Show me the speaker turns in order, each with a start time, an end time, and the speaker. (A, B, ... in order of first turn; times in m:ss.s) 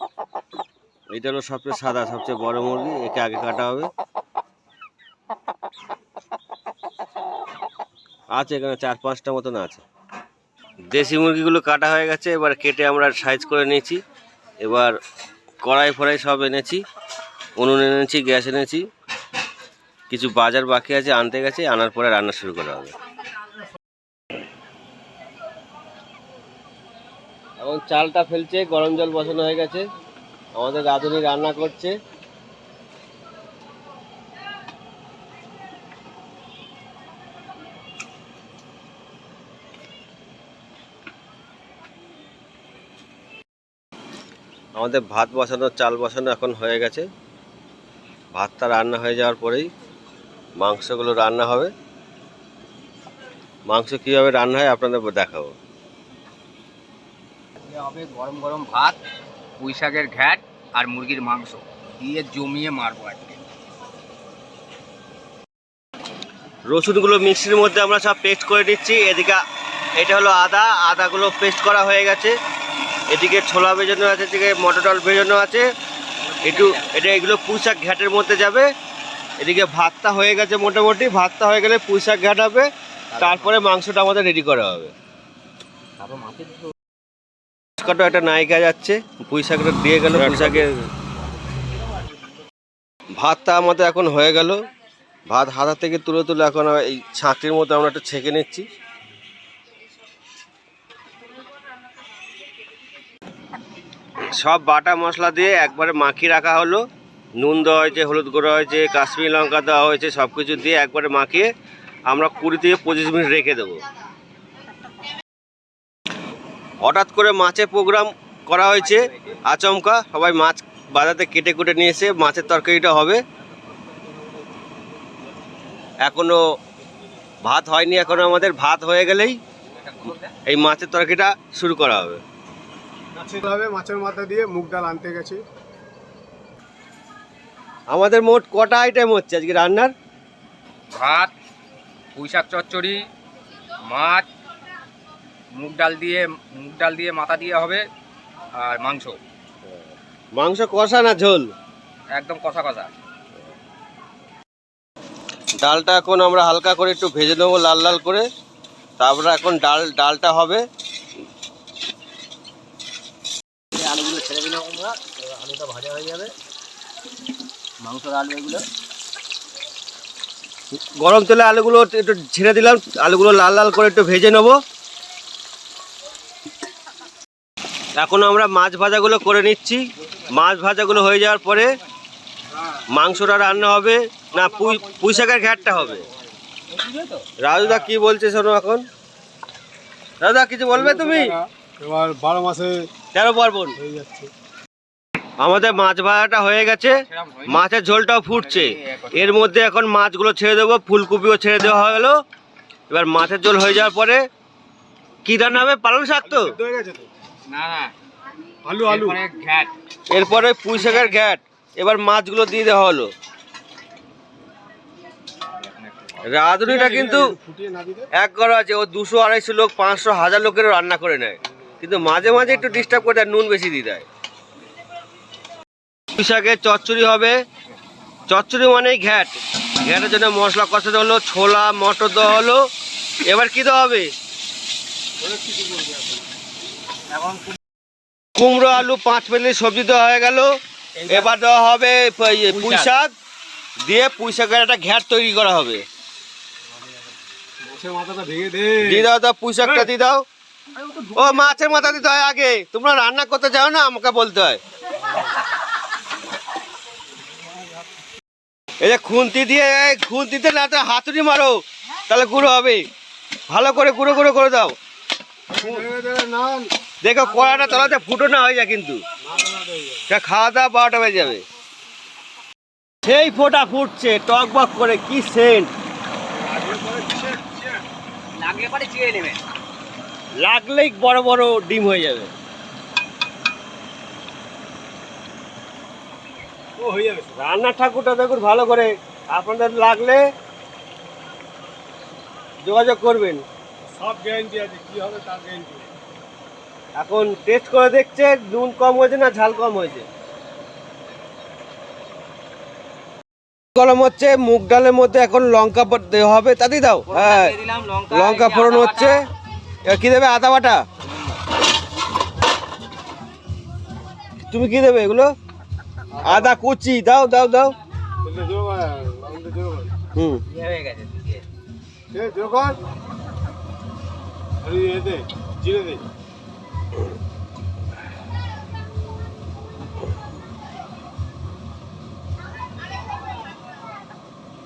0:01.1-0:03.9 A
0:08.3-0:09.8 A
0:10.9-0:14.0 A
0:14.6-0:14.9 A
0:15.6-0:16.8 A
0:17.6-0:18.8 A
0:20.1-0:22.9 A
0:27.6-0:29.8 A
0:30.6-0:31.9 A
0:44.8-0:47.0 A
0:48.3-0:49.7 A
0:50.6-0:51.7 A
0:53.7-0:55.6 A
0:57.7-0:59.0 B
0:59.6-1:03.4 B
1:06.7-1:09.4 A
1:10.0-1:12.3 A
1:13.1-1:15.7 A
1:16.2-1:17.1 B
1:16.4-1:18.7 A
1:19.4-1:24.9 A
1:23.1-1:23.6 B
1:26.0-1:26.7 B
1:27.8-1:30.7 A
1:33.2-1:34.6 A
1:35.3-1:38.6 A
1:44.3-1:46.8 A
1:47.4-1:51.5 A
1:52.1-1:53.8 A
1:56.8-2:03.2 A
1:58.7-1:59.4 B
2:06.0-2:06.4 A
2:07.4-2:09.4 A
2:09.8-2:10.3 B
2:10.4-2:12.2 A
2:13.1-2:15.4 C
2:17.9-2:19.9 A
2:20.9-2:21.3 B
2:22.1-2:23.0 B
2:23.8-2:24.3 B
2:25.5-2:27.8 B
2:28.6-2:29.2 B
2:30.4-2:31.5 A
2:32.1-2:32.9 B
2:35.6-2:38.2 A
2:39.0-2:40.6 A
2:43.7-2:46.3 B
2:47.8-2:48.6 B
2:51.0-2:54.6 A
2:58.0-3:01.8 A
3:02.9-3:06.1 A
3:04.3-3:06.0 C
3:06.7-3:07.2 B
3:07.4-3:08.8 A
3:07.6-3:07.9 C
3:10.2-3:11.3 A
3:10.7-3:12.9 C
3:13.1-3:13.8 A
3:13.8-3:14.3 C
3:15.4-3:22.2 A
3:17.0-3:17.6 B
3:18.3-3:19.5 B
3:22.9-3:24.2 A
3:25.2-3:26.6 A
3:26.2-3:27.1 C
3:27.5-3:27.9 B
3:28.6-3:29.2 C
3:28.8-3:29.7 B
3:30.1-3:33.1 A
3:30.7-3:31.2 B
3:35.6-3:36.1 B
3:36.2-3:37.3 A
3:36.6-3:38.1 C
3:38.1-3:44.0 A
3:46.1-3:47.3 A
3:48.3-3:52.6 A
3:53.2-3:54.1 A
3:55.2-3:56.2 C
3:58.4-4:00.5 A
4:01.0-4:01.3 B
4:01.1-4:03.1 A
4:02.5-4:02.9 B
4:03.8-4:05.8 A
4:07.6-4:09.0 C
4:08.8-4:10.2 A
4:09.6-4:09.9 C
4:10.8-4:11.2 B
4:11.1-4:14.6 A
4:18.8-4:22.8 A
4:23.5-4:24.7 A
4:25.5-4:27.9 C
4:27.0-4:29.0 A
4:29.2-4:30.0 C
4:30.1-4:31.4 A
4:33.0-4:35.7 A
4:36.3-4:37.8 C
4:38.3-4:39.4 B
4:40.4-4:42.3 A
4:46.8-4:47.3 C
4:47.3-4:50.2 A
4:52.6-4:53.4 A
4:53.9-4:55.9 C
4:57.0-5:00.0 A
5:03.8-5:07.6 A
5:07.1-5:09.2 B
5:08.1-5:09.2 A
5:09.8-5:10.8 A
5:14.5-5:15.3 A
5:16.1-5:16.5 C
5:16.2-5:17.7 A
5:18.2-5:19.9 C
5:20.1-5:20.4 A
5:20.5-5:21.4 B
5:22.1-5:22.8 C
5:24.6-5:26.0 C